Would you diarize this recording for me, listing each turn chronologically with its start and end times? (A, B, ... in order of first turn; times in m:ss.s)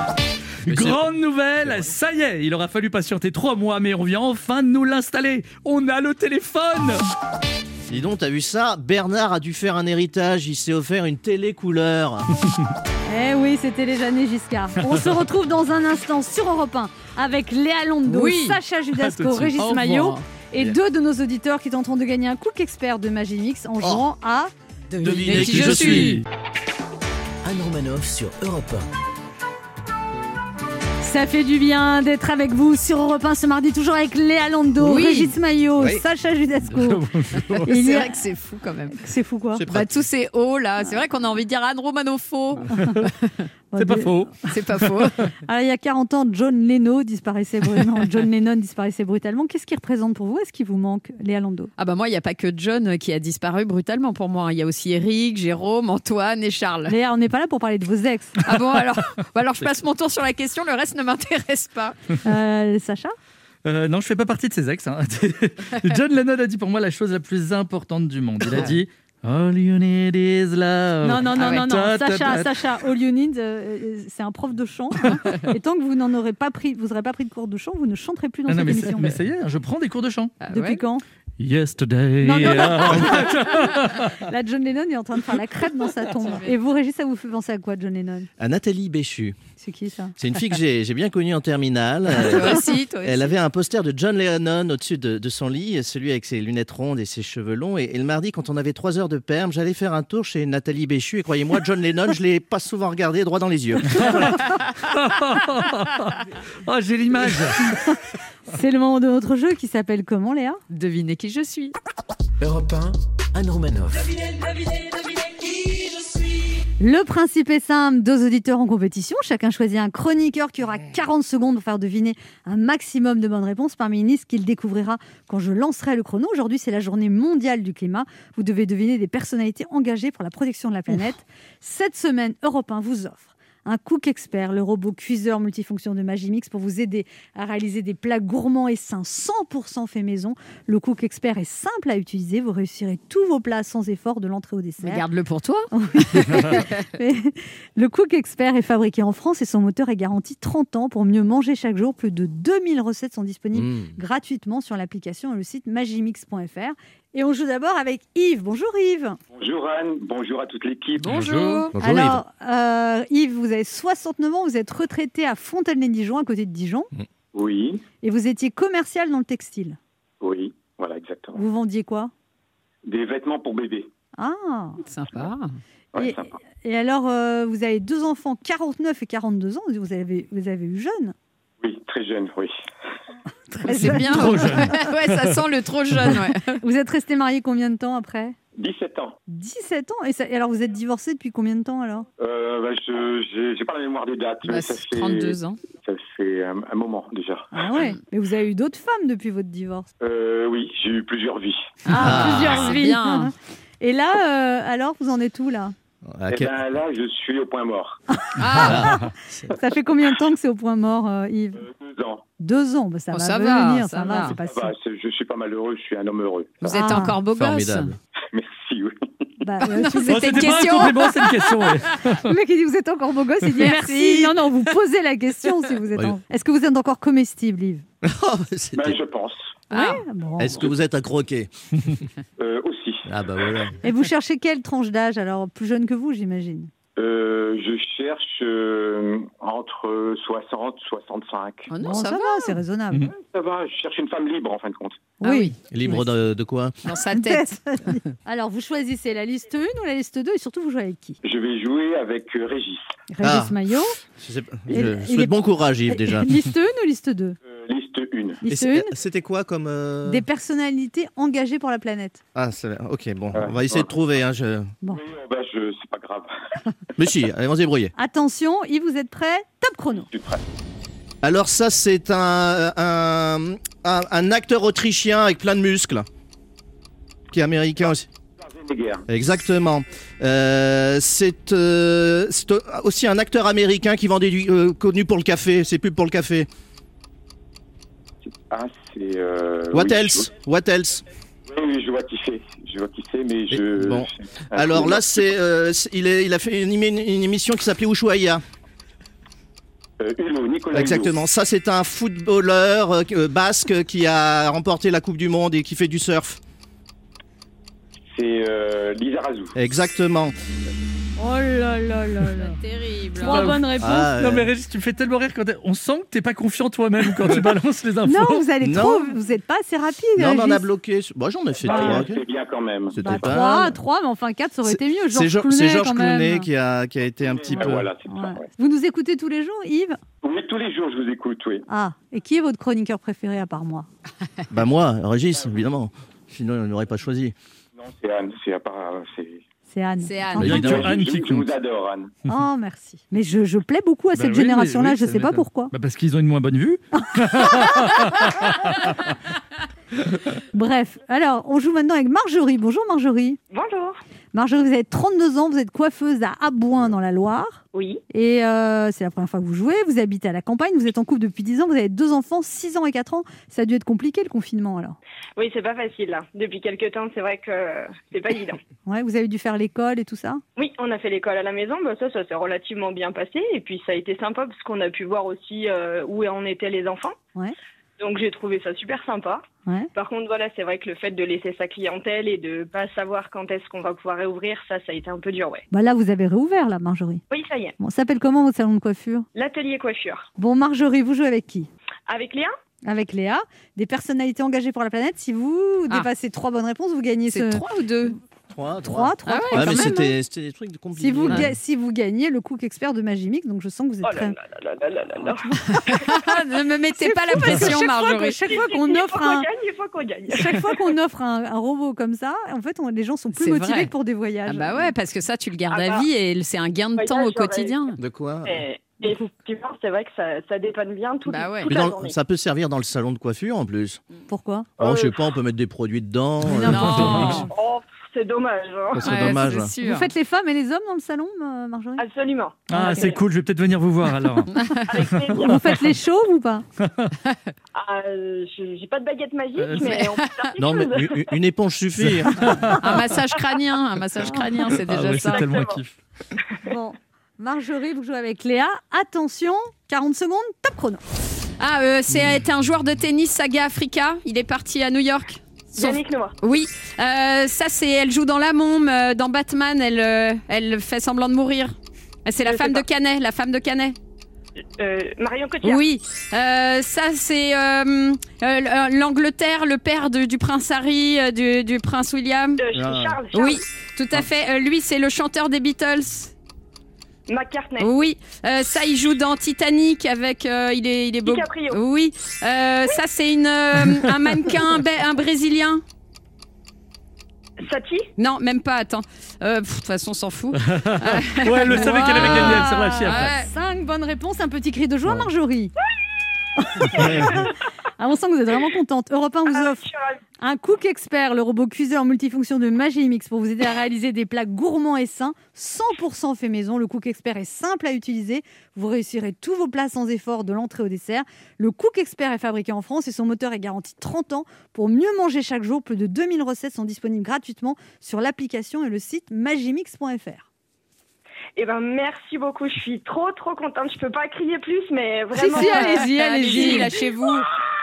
0:00.6-0:07.0 A
0:00.7-0:01.1 B
0:01.6-0:01.9 B
0:07.9-0:12.2 B
0:13.1-0:24.5 C
0:18.1-0:18.6 D
0:19.0-0:19.6 A
0:19.6-0:20.2 D
0:24.9-0:26.2 D
0:25.0-0:26.2 B
0:25.1-0:26.2 A
0:27.4-0:28.9 E
0:31.0-0:37.1 C
0:34.8-0:35.4 D
0:35.8-0:36.0 B
0:36.7-0:37.6 A
0:37.6-0:39.1 D
0:37.6-0:38.2 C
0:39.0-0:39.6 C
0:39.6-0:39.9 B
0:39.7-0:43.4 D
0:42.8-0:43.1 A
0:43.7-0:44.2 C
0:43.8-0:45.3 A
0:44.5-0:45.3 D
0:45.5-0:51.7 C
0:51.8-0:57.0 D
0:56.9-0:58.4 C
0:58.4-1:02.0 D
1:02.2-1:03.2 C
1:03.6-1:12.6 A
1:11.0-1:19.2 C
1:15.0-1:15.4 A
1:18.5-1:20.3 A
1:20.4-1:20.8 D
1:20.5-1:21.0 C
1:21.4-1:24.2 A
1:22.2-1:23.3 C
1:24.3-1:28.3 C
1:26.2-1:26.5 D
1:28.4-1:29.4 B
1:29.6-1:30.1 C
1:30.2-1:44.2 B
1:32.1-1:33.4 D
1:44.0-1:47.8 A
1:48.5-1:50.6 C
1:50.7-1:51.8 D
1:52.4-1:54.1 E
1:56.8-2:25.0 C
2:24.8-2:26.8 D
2:25.7-2:39.2 C
2:33.5-2:34.0 B
2:39.3-2:41.2 F
2:41.0-2:41.7 D
2:41.7-2:42.2 B
2:41.8-2:46.9 C
2:47.3-2:47.8 F
2:48.0-2:49.8 C
2:50.2-2:51.4 F
2:51.4-2:52.1 C
2:52.9-2:53.9 F
2:54.2-2:54.8 C
2:54.9-2:55.5 D
2:55.9-2:56.3 F
2:56.0-3:01.2 C
3:01.6-3:02.5 F
3:03.5-3:04.8 C
3:03.7-3:06.6 D
3:04.0-3:05.4 A
3:06.5-3:08.4 C
3:08.6-3:09.2 F
3:09.3-3:12.1 C
3:12.2-3:17.5 F
3:14.5-3:15.6 D
3:17.5-3:19.9 C
3:20.0-3:21.7 F
3:21.9-3:23.3 D
3:21.9-3:25.7 C
3:22.0-3:22.8 B
3:26.0-3:26.6 B
3:26.3-3:28.0 F
3:28.3-3:31.6 C
3:28.4-3:28.9 D
3:28.5-3:29.5 B
3:31.6-3:32.2 F
3:32.4-3:34.7 C
3:33.1-3:34.4 D
3:34.4-3:36.8 F
3:36.6-3:37.9 D
3:36.7-3:37.2 C
3:37.3-3:38.0 B
3:38.3-3:39.1 F
3:39.4-3:41.0 C
3:39.6-3:41.8 D
3:40.0-3:42.3 A
3:42.2-3:47.8 C
3:43.6-3:44.4 D
3:48.0-3:49.0 B
3:48.8-3:49.6 F
3:49.7-3:50.6 C
3:49.7-3:50.0 D
3:50.4-3:52.0 B
3:50.5-3:50.8 F
3:52.4-3:53.1 F
3:53.1-3:53.7 B
3:53.8-3:56.7 C
3:57.0-4:01.7 F
4:01.7-4:02.6 D
4:01.8-4:03.1 C
4:03.2-4:05.0 F
4:05.2-4:05.5 C
4:05.2-4:05.7 D
4:05.7-4:06.7 B
4:06.8-4:08.1 D
4:07.1-4:11.2 C
4:11.2-4:12.9 F
4:13.1-4:14.0 C
4:13.2-4:13.6 B
4:14.2-4:16.3 B
4:14.7-4:15.4 C
4:15.9-4:17.4 C
4:17.5-4:18.4 F
4:18.4-4:18.9 C
4:18.5-4:20.2 B
4:20.1-4:22.2 C
4:22.4-4:24.8 B
4:23.3-4:23.9 F
4:24.9-4:26.3 F
4:27.0-4:27.9 B
4:28.0-4:30.1 C
4:30.0-4:30.4 F
4:31.2-4:36.1 B
4:37.3-4:38.1 B
4:38.4-4:39.1 F
4:39.1-4:46.5 B
4:48.3-4:50.3 F
4:49.7-4:51.0 B
4:51.5-4:55.1 F
4:53.5-4:58.4 B
5:00.0-5:01.1 F
5:00.7-5:06.4 B
5:08.1-5:09.6 F
5:09.6-5:10.4 B
5:11.2-5:12.6 C
5:12.4-5:13.6 D
5:13.2-5:14.0 C
5:13.2-5:18.5 A
5:13.8-5:14.5 B
5:18.0-5:20.6 C
5:18.6-5:19.2 B
5:20.2-5:22.2 B
5:21.6-5:23.0 F
5:21.7-5:22.0 C
5:22.9-5:23.8 B
5:23.0-5:26.5 C
5:24.7-5:27.9 B
5:27.2-5:28.5 F
5:27.5-5:30.0 C
5:30.2-5:31.6 F
5:31.7-5:33.9 C
5:34.5-5:37.3 B
5:37.8-5:39.4 F
5:39.7-5:40.8 C
5:40.0-5:40.8 D
5:40.4-5:41.5 A
5:40.5-5:42.1 F
5:42.3-5:45.7 C
5:44.1-5:49.0 A
5:50.5-5:53.4 C
5:53.5-5:54.0 G
5:54.3-6:05.0 C
5:57.7-5:58.0 G
6:05.4-6:08.6 G
6:08.9-6:10.4 C
6:10.6-6:17.2 G
6:18.0-6:25.6 G
6:25.7-6:27.2 C
6:27.3-6:27.8 G
6:27.8-6:29.3 C
6:29.4-6:30.3 G
6:30.4-6:31.7 C
6:32.1-6:32.5 G
6:32.8-6:37.6 C
6:37.3-6:38.2 D
6:38.5-6:41.5 B
6:38.8-6:40.1 C
6:39.3-6:40.0 D
6:41.0-6:44.4 C
6:44.0-6:45.8 G
6:45.7-6:48.5 D
6:47.0-6:49.5 C
6:48.4-6:50.6 G
6:50.3-6:54.8 C
6:53.4-6:53.9 D
6:54.5-6:58.0 D
6:55.7-6:56.1 G
6:57.0-6:57.9 G
6:58.0-6:58.6 B
6:58.4-7:02.2 G
7:01.3-7:01.7 D
7:01.7-7:04.0 B
7:04.3-7:04.7 C
7:04.8-7:05.2 G
7:04.8-7:07.4 B
7:06.5-7:07.5 D
7:07.5-7:09.2 G
7:08.9-7:09.7 B
7:09.0-7:10.1 D
7:09.8-7:12.0 C
7:12.0-7:13.2 G
7:12.7-7:14.5 A
7:12.8-7:13.1 C
7:12.8-7:13.1 D
7:14.5-7:15.1 D
7:14.9-7:15.7 G
7:15.4-7:16.6 C
7:16.8-7:17.2 A
7:17.8-7:21.4 G
7:19.8-7:20.6 D
7:20.6-7:22.5 B
7:22.4-7:22.8 A
7:22.8-7:25.6 D
7:24.8-7:26.0 A
7:25.2-7:25.8 G
7:26.6-7:31.0 C
7:31.6-7:44.0 D
7:35.7-7:36.4 G
7:42.4-7:42.8 G
7:44.8-7:45.8 G
7:45.6-7:52.6 D
7:52.6-7:53.6 G
7:52.7-7:53.2 B
7:53.3-7:56.3 D
7:57.3-7:57.9 G
7:57.8-8:05.8 D
8:01.2-8:01.8 G
8:07.6-8:08.1 G
8:08.2-8:13.5 D
8:10.6-8:13.3 A
8:11.7-8:15.7 C
8:16.6-8:17.4 C
8:17.0-8:17.4 B
8:18.0-8:19.8 C
8:19.5-8:20.2 G
8:20.4-8:40.5 C
8:41.6-8:47.4 G
8:45.4-8:46.9 C
8:45.4-8:47.5 D